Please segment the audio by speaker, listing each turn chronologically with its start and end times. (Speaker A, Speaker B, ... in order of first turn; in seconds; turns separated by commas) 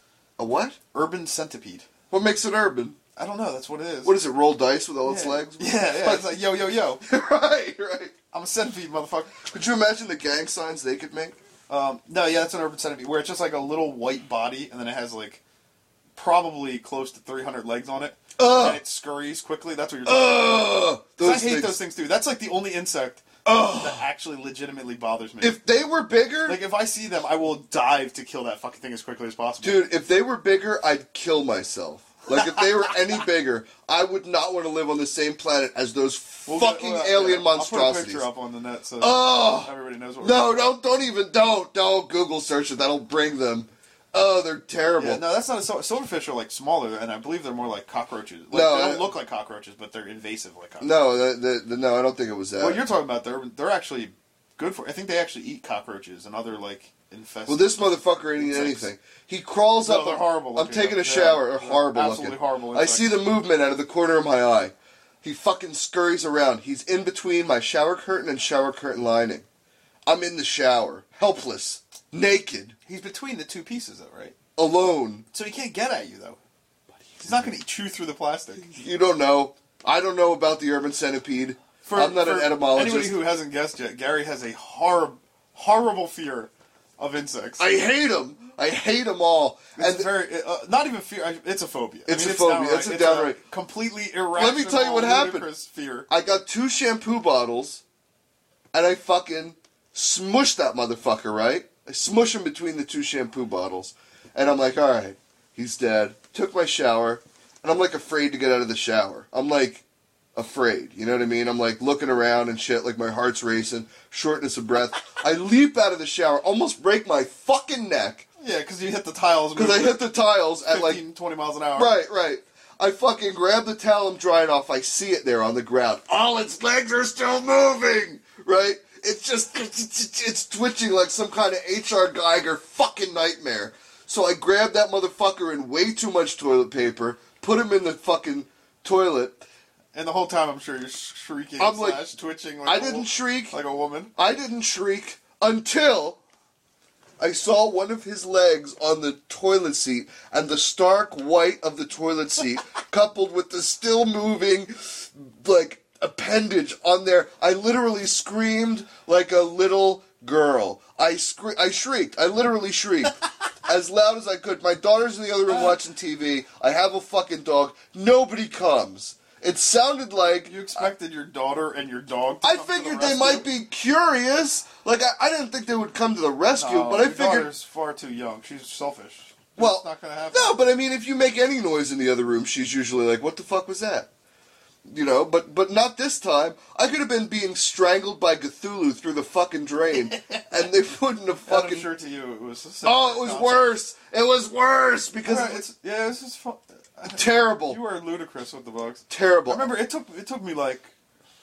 Speaker A: 0.4-0.8, Speaker B: 0.9-1.9, Speaker A: 2.1-3.0, Speaker B: 3.2-4.2, Speaker A: 4.0-6.3, Speaker B: 5.0-7.0, Speaker A: 7.0-8.1, Speaker B: 8.3-9.4, Speaker A: 9.5-11.4, Speaker B: 11.7-15.4, Speaker B: 16.2-25.6, Speaker A: 18.4-18.8, Speaker A: 20.1-21.8, Speaker A: 23.4-24.0, Speaker A: 25.4-26.6, Speaker B: 26.4-29.9, Speaker A: 29.6-38.3, Speaker B: 36.5-40.7, Speaker A: 39.0-45.2, Speaker B: 45.0-50.9, Speaker A: 48.5-49.1, Speaker A: 50.8-52.8, Speaker B: 52.6-57.8, Speaker A: 57.5-69.5, Speaker B: 58.3-58.9, Speaker B: 59.8-63.2, Speaker A: 70.0-72.7, Speaker B: 72.9-74.3, Speaker A: 74.5-75.2, Speaker B: 75.3-76.4, Speaker B: 77.2-78.7, Speaker A: 78.7-83.2, Speaker B: 81.8-87.7, Speaker A: 87.6-90.1, Speaker B: 89.8-96.1, Speaker A: 92.0-93.4, Speaker A: 94.3-95.5, Speaker A: 96.1-97.8, Speaker A: 98.7-109.8, Speaker A: 110.3-118.3, Speaker B: 118.4-120.1, Speaker A: 119.5-121.0, Speaker B: 120.7-121.9, Speaker A: 121.8-139.4, Speaker B: 139.9-144.1, Speaker A: 141.6-142.0, Speaker A: 142.7-143.6, Speaker A: 144.2-146.2, Speaker A: 147.2-170.9, Speaker B: 170.4-173.5, Speaker A: 172.4-177.5, Speaker B: 176.6-180.6, Speaker A: 179.6-184.1, Speaker A: 184.9-191.9, Speaker B: 191.4-193.7, Speaker A: 192.8-195.6, Speaker B: 195.2-200.9, Speaker A: 197.1-197.8, Speaker A: 199.1-199.7